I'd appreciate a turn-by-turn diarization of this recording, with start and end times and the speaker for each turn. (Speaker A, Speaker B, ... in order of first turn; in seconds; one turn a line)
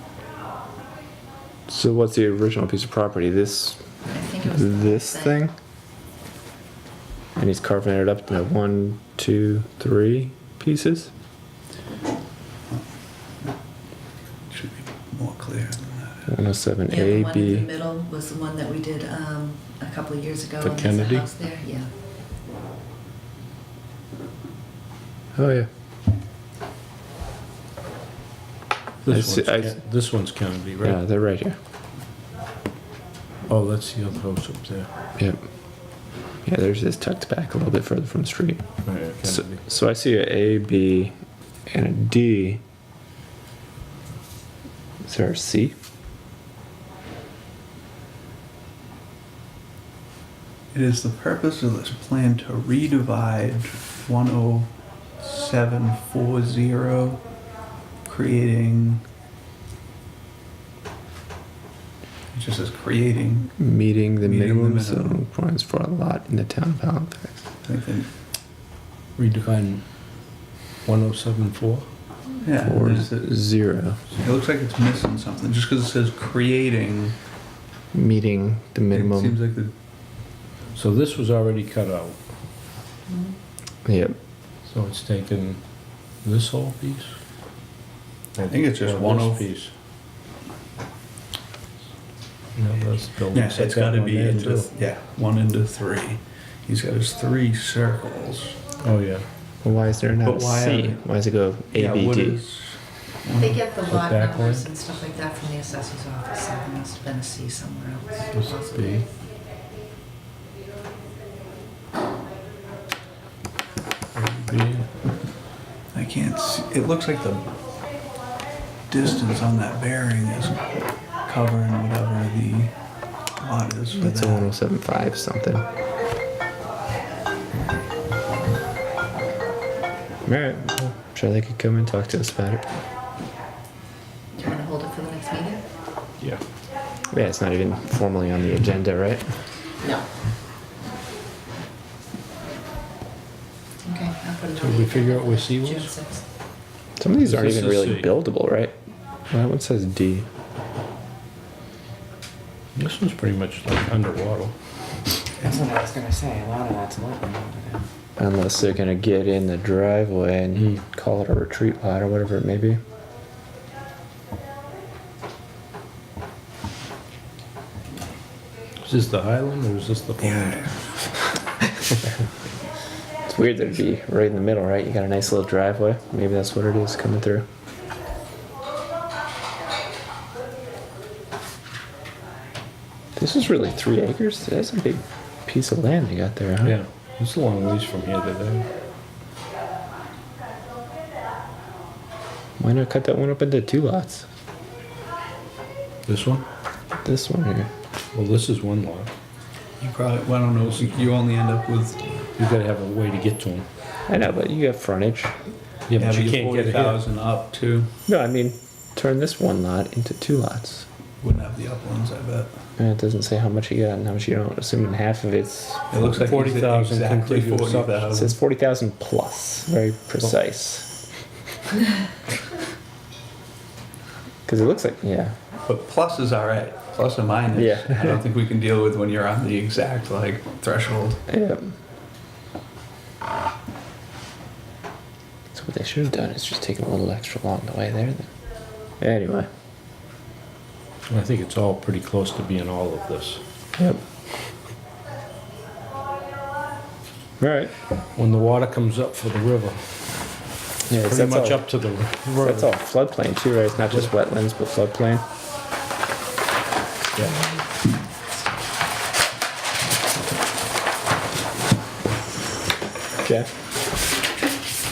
Speaker A: 1.7-3.8
Speaker B: 4.1-5.4
Speaker A: 4.5-5.5
Speaker A: 7.4-11.1
Speaker C: 14.5-16.3
Speaker A: 16.3-17.7
Speaker B: 16.9-21.9
Speaker D: 20.6-21.3
Speaker A: 25.4-25.7
Speaker D: 29.0-31.0
Speaker A: 29.1-29.8
Speaker A: 30.8-31.6
Speaker D: 33.5-34.9
Speaker A: 36.5-38.6
Speaker D: 38.9-39.6
Speaker A: 39.2-41.1
Speaker A: 41.7-42.6
Speaker A: 45.0-45.7
Speaker C: 50.7-57.2
Speaker C: 58.0-59.0
Speaker C: 62.3-63.6
Speaker A: 63.6-67.4
Speaker C: 64.2-65.2
Speaker C: 67.6-68.1
Speaker D: 69.2-71.9
Speaker C: 72.4-73.3
Speaker A: 72.7-74.0
Speaker C: 74.2-77.2
Speaker A: 77.9-79.4
Speaker C: 78.9-79.7
Speaker D: 80.8-82.2
Speaker B: 83.1-83.4
Speaker A: 83.8-84.2
Speaker D: 84.6-87.2
Speaker D: 88.4-89.7
Speaker C: 88.4-89.5
Speaker D: 92.6-94.7
Speaker C: 93.3-98.6
Speaker D: 98.8-99.3
Speaker A: 99.6-102.4
Speaker C: 100.2-101.0
Speaker C: 101.7-103.6
Speaker B: 103.4-109.0
Speaker D: 103.8-104.7
Speaker D: 108.3-109.0
Speaker D: 114.2-114.9
Speaker C: 115.9-117.5
Speaker C: 118.9-122.8
Speaker C: 123.4-124.5
Speaker A: 123.9-125.7
Speaker A: 130.3-132.7
Speaker B: 134.3-135.6
Speaker A: 137.1-139.2
Speaker B: 143.8-146.2
Speaker D: 144.6-145.9
Speaker A: 147.0-148.7
Speaker D: 147.2-148.1
Speaker A: 149.3-150.3
Speaker D: 152.8-154.5
Speaker E: 155.4-157.8
Speaker A: 158.2-162.8
Speaker D: 168.8-170.8
Speaker C: 170.2-170.7
Speaker A: 173.3-177.5
Speaker A: 183.2-186.8
Speaker D: 186.6-188.7
Speaker A: 192.6-194.3
Speaker D: 196.1-196.5
Speaker A: 197.0-197.7
Speaker D: 198.1-199.1
Speaker C: 199.8-202.0
Speaker D: 202.4-203.7
Speaker A: 204.1-205.3
Speaker D: 205.9-207.0
Speaker C: 205.9-207.9
Speaker A: 208.1-210.9
Speaker C: 211.2-212.6
Speaker A: 212.8-216.1
Speaker C: 215.9-218.3
Speaker D: 216.2-218.3
Speaker A: 218.1-220.9
Speaker A: 224.5-225.3
Speaker C: 225.7-231.2
Speaker A: 227.5-228.2
Speaker A: 231.3-231.8
Speaker A: 235.5-238.3
Speaker A: 239.0-239.5
Speaker D: 241.1-243.4
Speaker A: 247.4-247.7
Speaker D: 248.2-249.8
Speaker A: 250.9-251.7
Speaker D: 250.9-252.7
Speaker A: 252.4-255.2
Speaker D: 257.2-257.4
Speaker A: 263.2-263.5